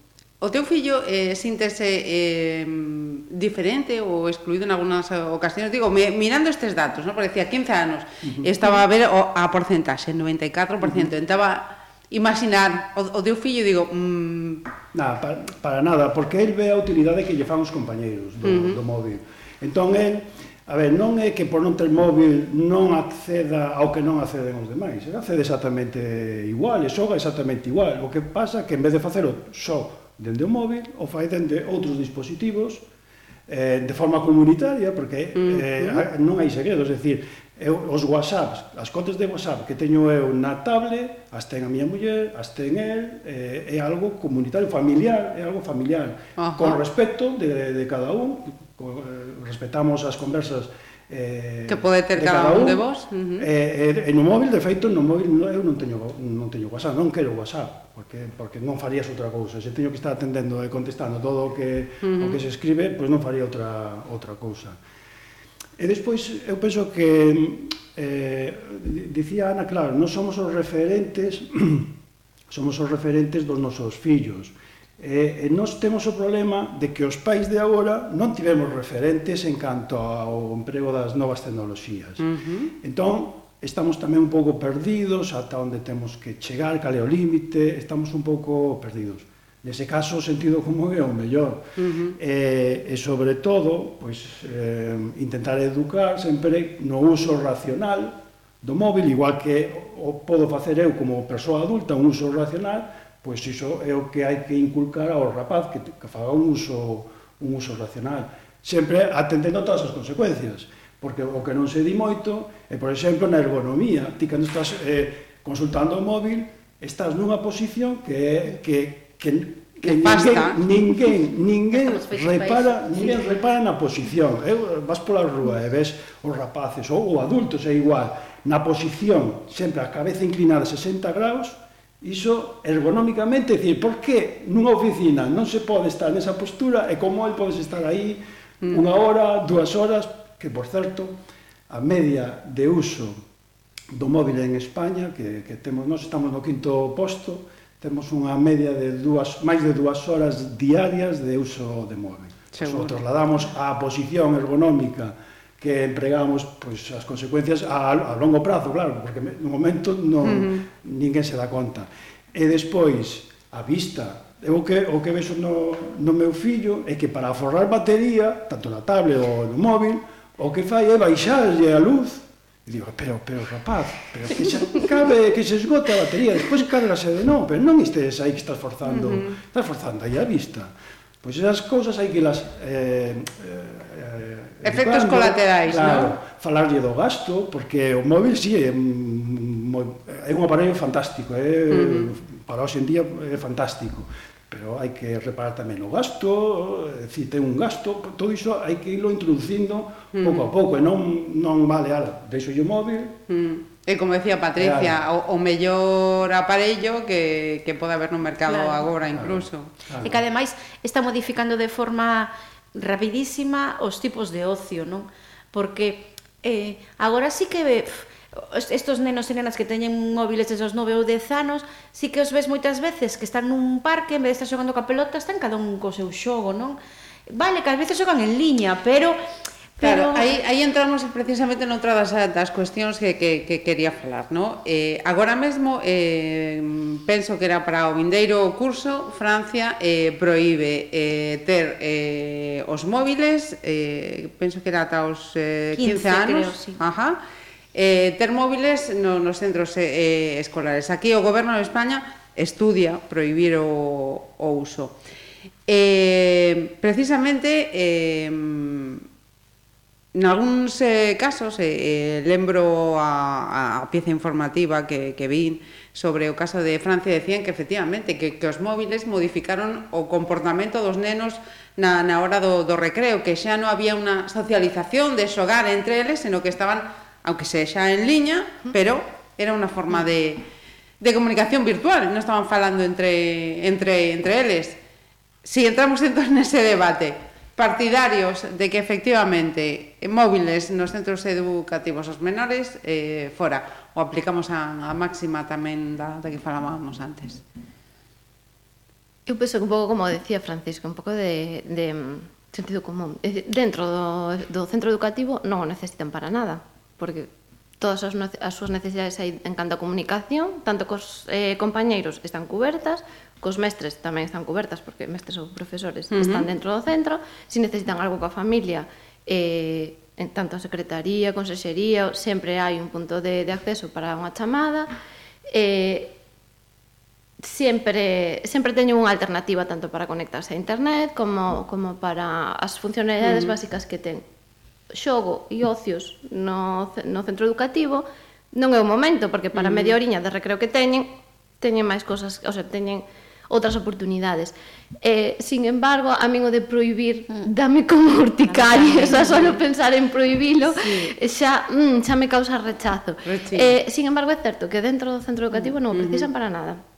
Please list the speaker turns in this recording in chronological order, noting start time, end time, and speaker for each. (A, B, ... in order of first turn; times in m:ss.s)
0:00.4-0:14.6 A
0:08.2-0:08.5 B
0:10.8-0:11.1 B
0:14.9-0:32.8 B
0:18.4-0:18.8 A
0:33.5-0:52.9 B
0:35.4-0:36.0 A
0:46.4-0:46.8 A
0:51.7-0:53.5 A
0:53.4-1:04.8 B
1:02.0-1:02.4 A
1:05.8-1:11.9 B
1:12.5-1:22.3 B
1:22.2-1:22.7 A
1:22.8-2:21.2 B
1:31.8-1:32.2 A
1:59.8-2:00.6 A
2:01.8-2:03.4 C
2:21.7-2:23.2 B
2:23.9-3:23.2 B
2:32.5-2:33.0 A
2:40.2-2:40.6 A
2:58.9-2:59.3 A
3:04.6-3:06.1 A
3:11.7-3:12.1 A
3:20.2-3:20.5 A
3:23.3-3:29.7 A
3:24.6-3:25.0 B
3:28.5-3:28.9 C
3:29.1-3:30.2 B
3:30.0-3:46.8 C
3:47.3-3:49.2 C
3:49.8-3:50.3 C
3:49.8-4:07.2 A
4:05.8-4:06.8 C
4:07.7-4:15.0 A
4:15.7-4:19.0 A
4:20.1-4:40.4 A
4:41.0-4:44.8 A
4:45.4-4:57.4 A
4:59.3-5:24.9 D
5:16.1-5:16.4 A
5:25.5-5:26.2 D
5:27.4-5:34.2 D
5:33.2-5:33.5 A
5:34.9-5:56.8 D
5:39.6-5:39.9 A
5:48.4-5:49.6 C
5:50.7-5:51.1 C
5:53.3-5:53.7 A
5:55.9-5:56.3 A